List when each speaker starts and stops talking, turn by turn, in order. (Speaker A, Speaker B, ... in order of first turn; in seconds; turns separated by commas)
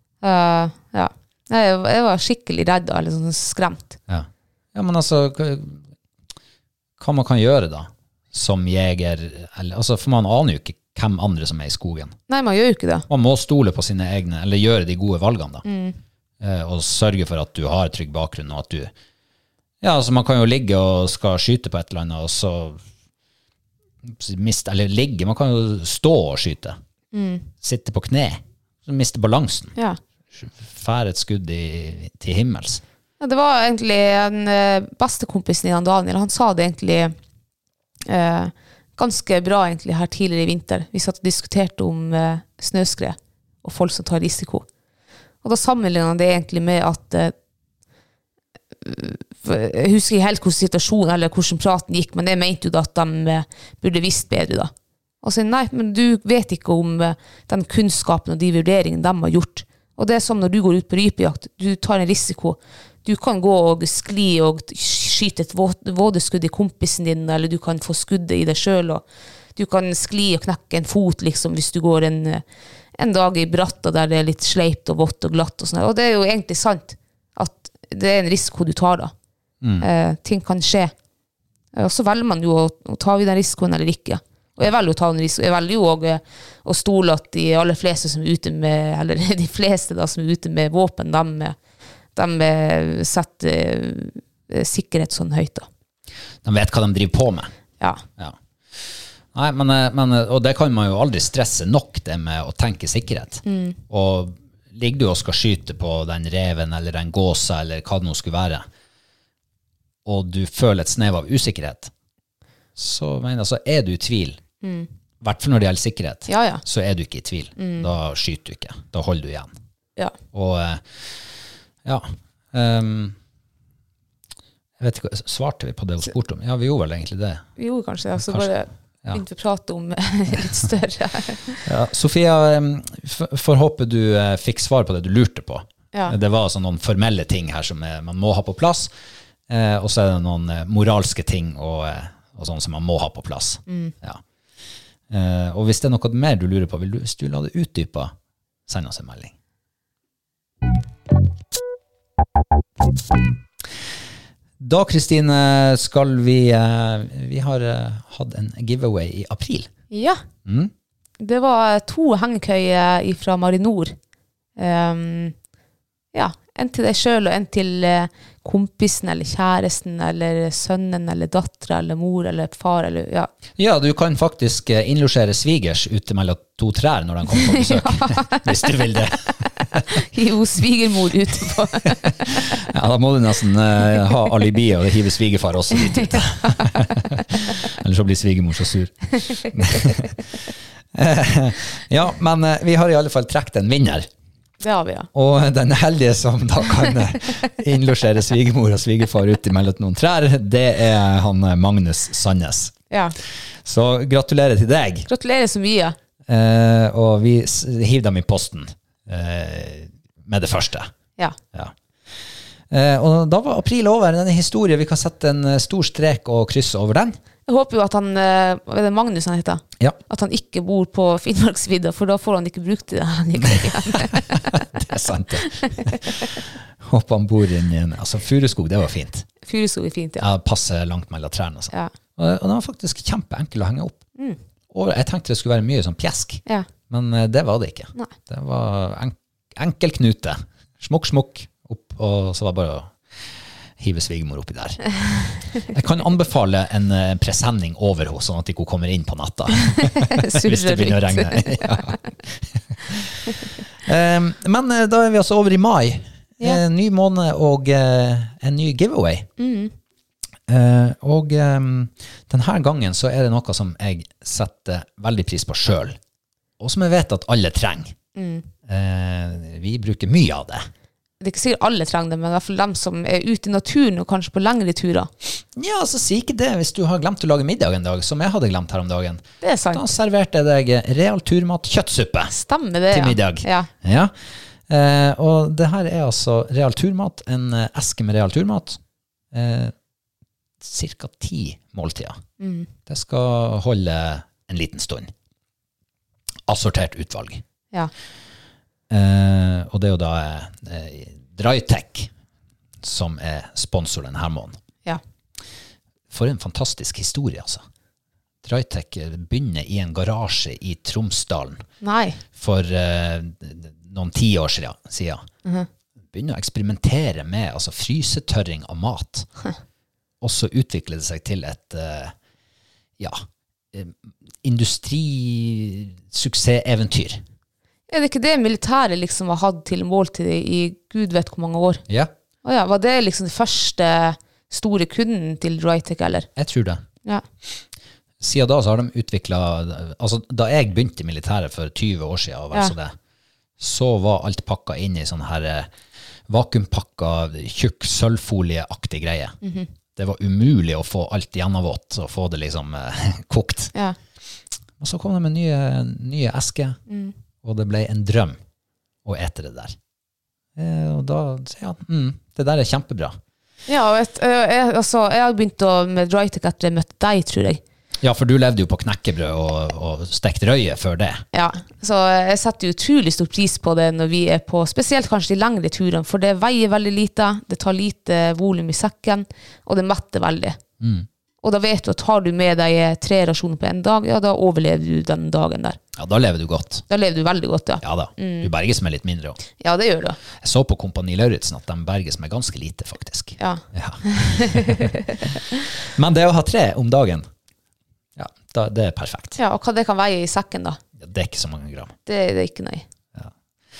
Speaker A: 0.2-4.0, Speaker B: 4.1-5.8, Speaker B: 7.0-12.2, Speaker A: 12.3-13.1, Speaker B: 13.1-15.6, Speaker A: 15.6-16.0, Speaker B: 16.4-18.9, Speaker B: 19.8-22.8, Speaker B: 24.0-26.8, Speaker A: 27.1-27.4, Speaker B: 27.6-29.7, Speaker B: 30.4-32.8, Speaker A: 33.2-37.1, Speaker A: 38.0-44.6, Speaker A: 45.4-47.3, Speaker A: 48.8-54.7, Speaker A: 55.2-69.0, Speaker A: 69.5-72.4, Speaker A: 73.0-79.1, Speaker B: 79.6-79.9, Speaker A: 79.8-80.9, Speaker A: 81.7-91.5, Speaker A: 92.1-95.7, Speaker B: 96.4-97.5, Speaker B: 98.2-108.6, Speaker A: 103.4-103.8, Speaker B: 110.0-111.9, Speaker B: 112.8-114.4, Speaker A: 114.6-114.9, Speaker B: 115.2-119.5, Speaker A: 116.3-116.6, Speaker A: 117.6-117.9, Speaker B: 120.3-121.1, Speaker B: 121.8-123.2, Speaker B: 124.8-127.5, Speaker A: 127.6-131.6, Speaker B: 128.2-128.5, Speaker B: 131.7-138.9, Speaker B: 139.5-144.2, Speaker A: 143.7-143.9, Speaker B: 145.1-148.1, Speaker B: 148.7-149.3, Speaker B: 154.6-159.7, Speaker A: 159.9-160.2, Speaker B: 160.4-160.7, Speaker A: 161.2-163.9, Speaker A: 164.6-165.3, Speaker A: 166.1-173.3, Speaker B: 173.6-179.8, Speaker A: 177.3-178.9, Speaker A: 179.9-182.4, Speaker B: 182.2-190.2, Speaker B: 190.9-194.1, Speaker A: 194.6-195.1, Speaker B: 195.1-202.8, Speaker A: 202.9-203.2, Speaker B: 203.6-205.1, Speaker A: 205.1-205.9, Speaker B: 206.2-210.9, Speaker B: 212.7-217.2, Speaker A: 217.5-224.6, Speaker B: 223.4-229.3, Speaker A: 229.4-230.2, Speaker B: 230.2-234.0, Speaker B: 234.7-259.3, Speaker A: 249.8-251.9, Speaker A: 259.4-259.7, Speaker B: 260.5-266.0, Speaker B: 266.6-267.9, Speaker A: 268.1-268.5, Speaker B: 268.6-270.7, Speaker A: 271.2-275.1, Speaker B: 275.5-282.3, Speaker A: 279.4-279.9, Speaker A: 282.3-283.7, Speaker B: 282.9-284.1, Speaker B: 284.7-288.8, Speaker B: 289.3-289.7, Speaker B: 290.6-292.2, Speaker A: 292.4-292.7, Speaker B: 292.9-295.1, Speaker B: 296.5-297.4, Speaker B: 298.9-302.1, Speaker B: 302.8-304.6, Speaker B: 306.1-307.6, Speaker B: 308.4-311.6, Speaker A: 311.8-312.2, Speaker B: 312.3-315.2, Speaker B: 316.1-319.3, Speaker B: 320.2-322.1, Speaker B: 323.7-327.2, Speaker A: 327.9-331.8, Speaker A: 332.4-336.3, Speaker B: 336.4-336.8, Speaker B: 338.2-342.9, Speaker B: 343.6-345.7, Speaker B: 346.3-349.4, Speaker A: 349.4-349.7, Speaker B: 349.9-353.7, Speaker B: 354.8-356.8, Speaker A: 356.9-357.1, Speaker B: 357.4-358.4, Speaker B: 359.0-359.8, Speaker B: 360.6-363.2, Speaker A: 363.7-367.6, Speaker B: 368.0-371.2, Speaker A: 371.3-380.6, Speaker B: 380.8-381.1, Speaker A: 381.4-385.8, Speaker B: 385.9-386.9, Speaker A: 386.9-388.5, Speaker B: 387.8-389.4, Speaker A: 389.6-390.2, Speaker B: 390.4-395.4, Speaker A: 393.4-395.4, Speaker B: 395.9-397.3, Speaker B: 398.1-399.4, Speaker A: 399.4-400.8, Speaker B: 401.0-401.9, Speaker A: 402.1-402.9